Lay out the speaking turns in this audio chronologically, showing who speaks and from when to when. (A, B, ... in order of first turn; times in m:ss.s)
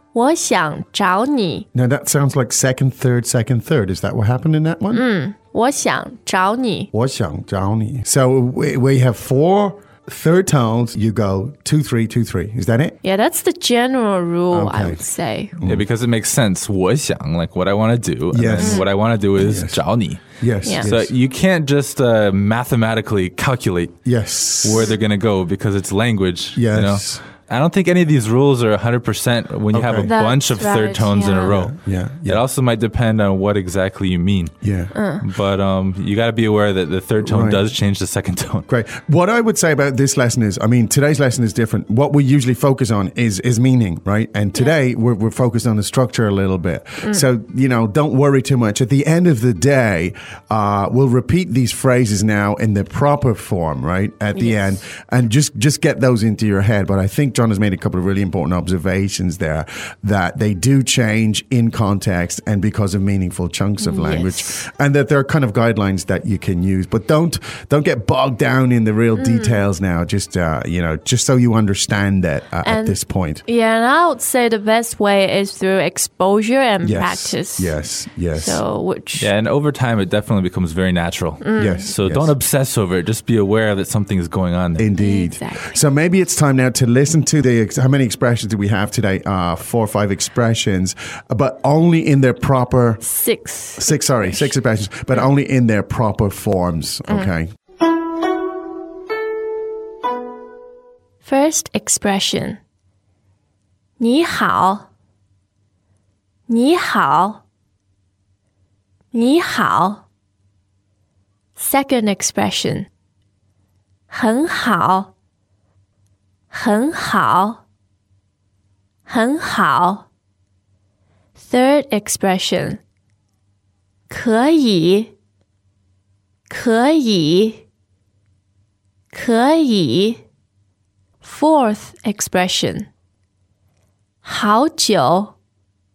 0:00.1-0:01.7 A
0:01.7-0:05.0 B
0:04.9-0:06.9 A
0:06.9-0:13.0 B
0:13.0-0:15.6 A
0:14.5-0:15.1 B
0:15.6-0:15.9 B
0:15.6-0:20.2 C
0:18.3-0:19.8 B
0:20.4-0:21.1 B
0:20.6-0:20.9 A
0:20.8-0:23.9 C
0:24.0-0:24.9 B
0:24.6-0:34.6 C
0:26.6-0:27.2 B
0:29.7-0:30.1 B
0:30.0-0:31.6 A
0:31.5-0:32.4 B
0:34.6-0:34.9 B
0:34.9-0:35.2 A
0:35.2-0:38.7 C
0:37.2-0:37.6 B
0:38.7-1:13.4 B
0:54.4-0:54.8 A
1:03.8-1:04.6 A
1:09.2-1:09.6 A
1:12.6-1:17.8 A
1:16.8-1:18.6 B
1:18.4-1:19.3 A
1:19.2-1:24.9 C
1:21.4-1:21.9 A
1:21.6-1:22.4 B
1:24.8-1:33.0 B
1:25.0-1:25.8 A
1:33.0-1:34.5 A
1:33.8-1:37.5 B
1:41.2-1:42.6 A
1:44.0-1:44.9 A
1:46.5-1:47.4 A
1:49.1-1:50.0 A
1:51.6-1:52.9 A
1:54.1-1:55.1 A
1:56.5-1:57.6 A
1:59.1-2:00.1 A
2:01.4-2:02.8 A
2:04.1-2:05.1 A
2:06.5-2:07.6 A
2:09.1-2:10.2 A
2:11.2-2:12.9 A
2:14.2-2:15.4 A